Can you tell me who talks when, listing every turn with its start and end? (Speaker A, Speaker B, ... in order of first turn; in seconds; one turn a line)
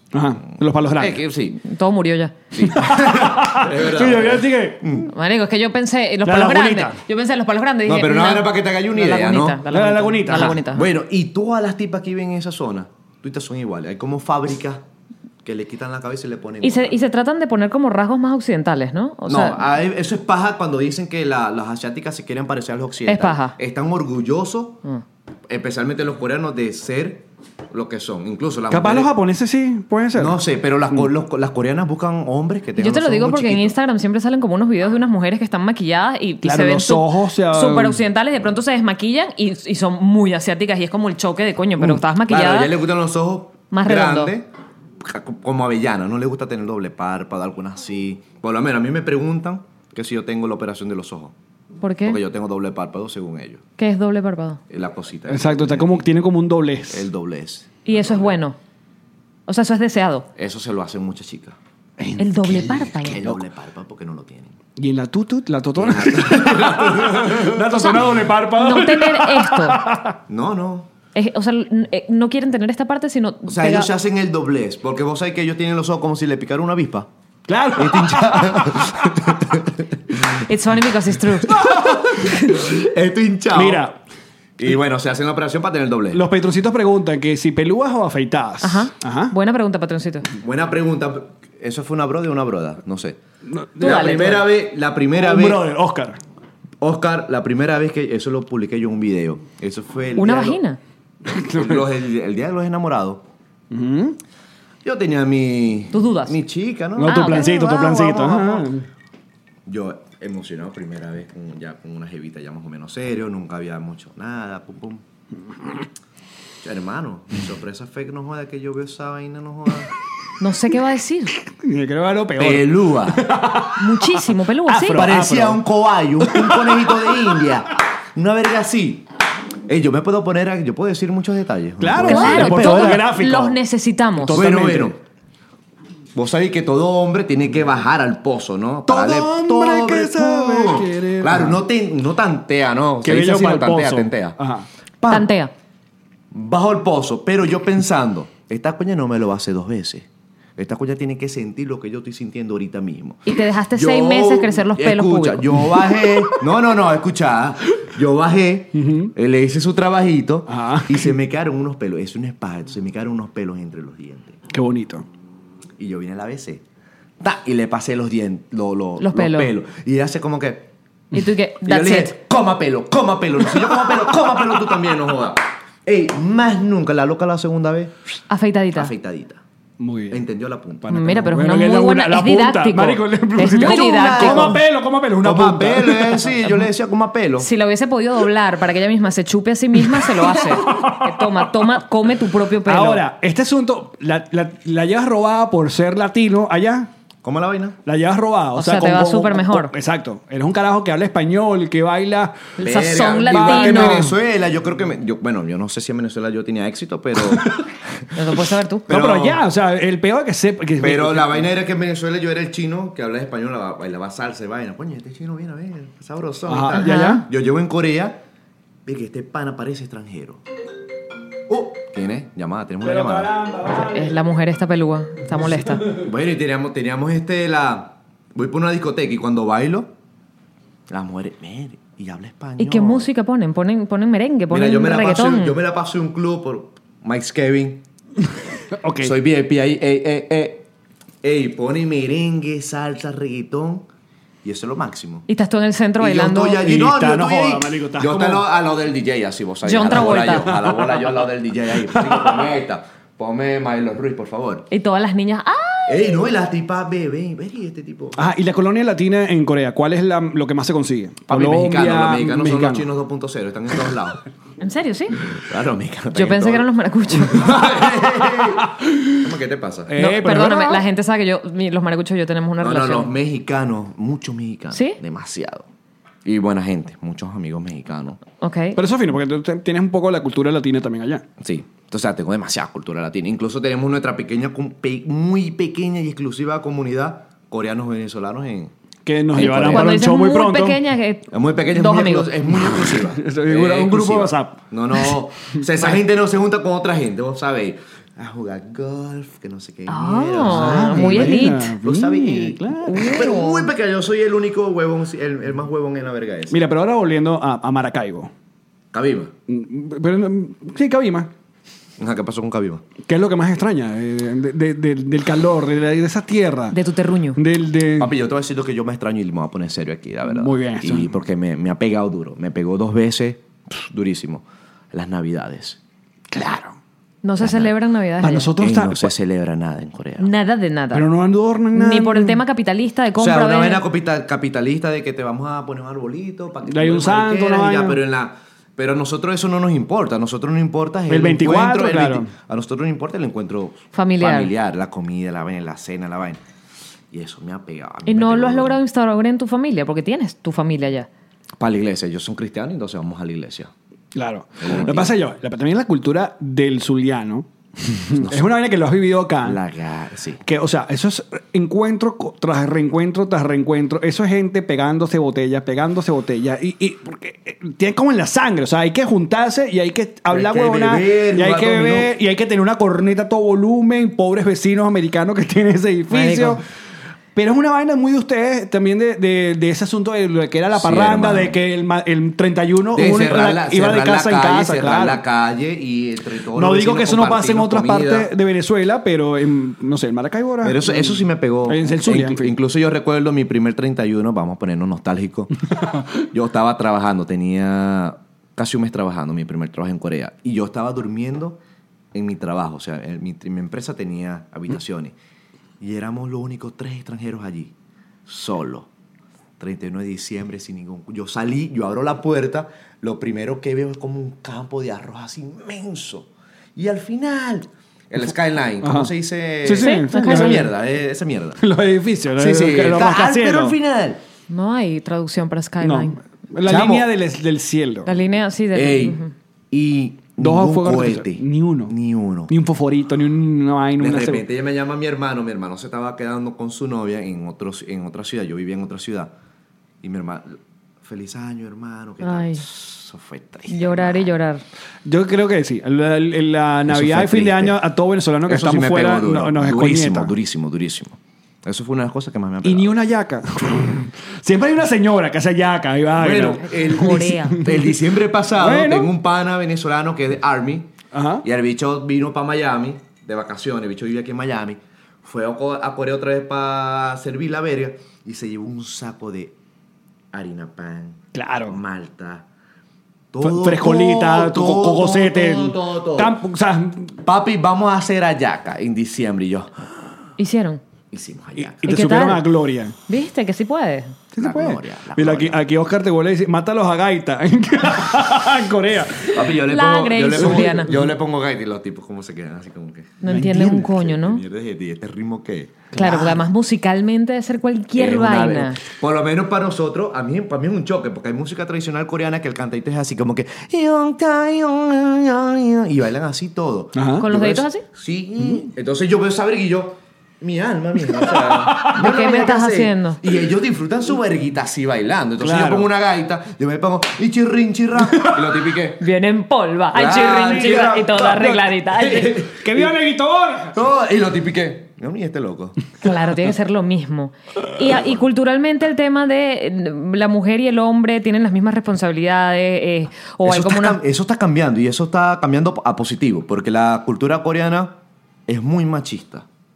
Speaker A: 0.1-1.2
Speaker B: 0.9-1.6
Speaker C: 1.6-2.4
Speaker B: 2.5-5.1
Speaker A: 2.6-4.8
Speaker C: 5.1-10.9
Speaker A: 6.2-7.0
Speaker B: 7.8-9.6
Speaker A: 9.7-10.6
Speaker B: 10.3-14.8
Speaker B: 15.4-17.0
Speaker C: 16.6-19.6
Speaker B: 19.3-24.8
Speaker C: 23.1-23.6
Speaker B: 25.5-29.1
Speaker A: 28.7-30.4
Speaker B: 30.1-33.8
Speaker C: 32.8-42.7
Speaker A: 36.4-38.0
Speaker B: 42.3-44.5
Speaker C: 43.7-44.3
Speaker B: 45.0-51.4
Speaker C: 51.8-52.2
Speaker B: 52.0-53.6
Speaker C: 53.8-54.6
Speaker B: 54.7-56.1
Speaker A: 55.3-57.1
Speaker B: 56.9-58.3
Speaker C: 57.9-58.6
Speaker C: 59.5-60.3
Speaker B: 60.4-61.6
Speaker A: 62.0-62.3
Speaker C: 62.2-63.4
Speaker B: 62.5-64.6
Speaker A: 64.8-70.2
Speaker B: 65.8-67.7
Speaker C: 67.7-68.0
Speaker C: 68.6-69.8
Speaker B: 70.3-70.9
Speaker C: 71.1-73.9
Speaker B: 73.5-77.1
Speaker A: 77.5-79.4
Speaker B: 77.8-80.5
Speaker C: 80.4-81.7
Speaker B: 81.4-83.8
Speaker A: 81.5-82.6
Speaker C: 82.2-82.6
Speaker A: 83.5-84.0
Speaker B: 84.6-86.2
Speaker A: 86.1-89.3
Speaker C: 88.6-90.3
Speaker B: 90.4-93.2
Speaker A: 93.5-94.4
Speaker C: 93.8-94.4
Speaker B: 93.8-95.7
Speaker A: 95.2-96.2
Speaker B: 96.8-100.6
Speaker C: 100.2-100.8
Speaker A: 101.3-101.8
Speaker B: 101.5-103.2
Speaker A: 103.7-104.2
Speaker B: 104.8-108.7
Speaker C: 105.9-106.4
Speaker A: 107.0-108.9
Speaker C: 107.0-107.7
Speaker B: 109.7-115.0
Speaker B: 116.6-119.9
Speaker C: 120.4-121.3
Speaker A: 121.5-125.6
Speaker B: 122.4-123.3
Speaker C: 123.8-125.1
Speaker B: 124.9-129.1
Speaker A: 126.2-127.1
Speaker B: 129.7-133.0
Speaker A: 131.8-133.6
Speaker C: 132.0-134.4
Speaker A: 134.2-134.9
Speaker B: 134.3-135.0
Speaker B: 136.2-144.4
Speaker A: 138.9-141.6
Speaker A: 143.0-144.7
Speaker B: 145.0-145.3
Speaker C: 145.1-145.5
Speaker B: 146.3-164.4
Speaker C: 153.3-155.5
Speaker A: 158.8-159.1
Speaker A: 160.5-161.1
Speaker A: 164.5-165.1
Speaker B: 165.8-166.6
Speaker B: 167.2-170.7
Speaker C: 169.0-169.5
Speaker C: 171.1-172.2
Speaker B: 171.6-177.9
Speaker C: 178.3-178.9
Speaker B: 178.8-179.4
Speaker A: 179.8-180.2
Speaker B: 180.1-180.9
Speaker A: 180.8-186.4
Speaker C: 180.9-184.6
Speaker B: 183.6-184.6
Speaker B: 185.2-187.5
Speaker C: 187.4-193.0
Speaker A: 189.8-191.8
Speaker A: 192.7-196.9
Speaker B: 197.2-197.8
Speaker A: 197.8-202.5
Speaker C: 198.6-199.7
Speaker C: 202.6-204.1
Speaker B: 202.6-207.6
Speaker A: 203.1-204.1
Speaker C: 208.1-208.9
Speaker B: 208.9-209.4
Speaker A: 208.9-211.5
Speaker B: 210.8-218.2
Speaker A: 216.5-217.2
Speaker C: 216.8-217.2
Speaker B: 218.9-220.4
Speaker B: 221.5-223.3
Speaker A: 222.8-224.2
Speaker C: 223.8-225.9
Speaker A: 225.4-226.0
Speaker B: 226.0-229.9
Speaker B: 230.9-233.1
Speaker C: 232.6-235.6
Speaker B: 234.5-237.8
Speaker A: 238.8-239.2
Speaker B: 239.0-240.7
Speaker B: 241.2-243.9
Speaker B: 244.4-245.3
Speaker C: 245.3-246.7
Speaker B: 246.0-254.7
Speaker A: 246.6-248.4
Speaker C: 249.7-250.5
Speaker A: 250.5-251.0
Speaker A: 251.9-252.4
Speaker C: 254.7-256.1
Speaker B: 255.9-258.3
Speaker A: 258.2-262.9
Speaker B: 261.3-264.2
Speaker C: 264.6-265.2
Speaker B: 265.2-269.9
Speaker C: 266.1-267.7
Speaker A: 268.0-269.3
Speaker A: 269.9-270.8
Speaker C: 270.0-273.1
Speaker B: 272.6-275.7
Speaker C: 274.7-275.0
Speaker B: 276.2-278.2
Speaker C: 278.4-278.8
Speaker A: 278.8-281.3
Speaker B: 281.4-288.7
Speaker A: 289.1-290.8
Speaker B: 289.3-290.0
Speaker C: 289.4-292.4
Speaker B: 291.3-306.6
Speaker A: 292.7-296.0
Speaker C: 299.9-301.8
Speaker A: 300.4-303.1
Speaker C: 302.9-303.7
Speaker A: 306.5-308.3
Speaker B: 308.9-309.3
Speaker A: 309.5-311.3
Speaker B: 312.0-312.9
Speaker A: 313.1-316.8
Speaker C: 316.7-317.4
Speaker A: 317.4-318.1
Speaker B: 318.0-325.8
Speaker A: 320.3-321.1
Speaker A: 326.3-326.8
Speaker C: 327.2-328.5
Speaker B: 327.4-327.7
Speaker A: 328.2-329.1
Speaker B: 328.6-330.3
Speaker C: 330.2-331.1
Speaker A: 330.9-332.4
Speaker C: 331.7-333.8
Speaker B: 333.2-346.4
Speaker A: 336.7-338.0
Speaker A: 341.1-342.3
Speaker C: 343.9-344.5
Speaker B: 347.1-348.8
Speaker C: 348.1-351.1
Speaker B: 351.6-353.7
Speaker A: 354.1-359.6
Speaker B: 354.6-355.2
Speaker B: 358.2-358.6
Speaker B: 359.4-360.4
Speaker A: 360.5-376.6
Speaker B: 370.3-372.1
Speaker B: 376.1-376.6
Speaker A: 377.4-385.2
Speaker B: 380.7-381.6
Speaker B: 382.9-388.3
Speaker A: 386.5-392.6
Speaker B: 390.6-395.5
Speaker A: 395.8-396.1
Speaker B: 396.1-401.6
Speaker B: 402.1-405.1
Speaker B: 405.8-407.7
Speaker B: 408.3-408.9
Speaker B: 409.6-421.6
Speaker A: 418.8-419.1
Speaker A: 419.6-420.7
Speaker C: 419.8-420.7
Speaker A: 421.6-423.8
Speaker B: 422.4-424.2
Speaker C: 424.5-426.2
Speaker A: 425.8-428.1
Speaker B: 426.7-427.1
Speaker C: 428.1-429.3
Speaker B: 428.7-429.2
Speaker B: 429.7-432.5
Speaker A: 430.4-431.9
Speaker A: 432.5-434.5
Speaker B: 434.0-439.3
Speaker B: 440.0-444.3
Speaker C: 442.2-442.6
Speaker C: 443.7-444.6
Speaker A: 445.1-450.3
Speaker B: 446.9-447.8
Speaker B: 448.4-452.9
Speaker A: 452.6-457.8
Speaker B: 456.2-469.6
Speaker C: 456.6-457.6
Speaker A: 458.6-459.1
Speaker A: 461.1-461.4
Speaker B: 470.3-472.5
Speaker A: 471.3-471.8
Speaker B: 473.3-476.4
Speaker A: 473.4-477.2
Speaker B: 477.2-479.8
Speaker C: 480.4-480.8
Speaker B: 481.1-482.4
Speaker A: 481.7-483.0
Speaker C: 481.8-482.5
Speaker C: 483.1-484.2
Speaker A: 484.3-489.5
Speaker B: 484.4-485.6
Speaker B: 489.3-496.0
Speaker C: 489.7-490.9
Speaker A: 490.4-490.7
Speaker C: 493.2-494.4
Speaker A: 493.3-493.9
Speaker A: 495.9-496.4
Speaker C: 495.9-498.8
Speaker B: 497.9-519.0
Speaker A: 506.9-507.2
Speaker C: 507.2-507.8
Speaker C: 511.9-513.2
Speaker A: 515.4-515.9
Speaker A: 518.0-518.6
Speaker C: 519.0-522.4
Speaker B: 519.9-522.9
Speaker A: 520.5-521.5
Speaker A: 522.5-523.8
Speaker B: 523.7-525.8
Speaker C: 526.0-534.0
Speaker B: 527.8-528.2
Speaker B: 533.4-538.0
Speaker B: 538.5-539.5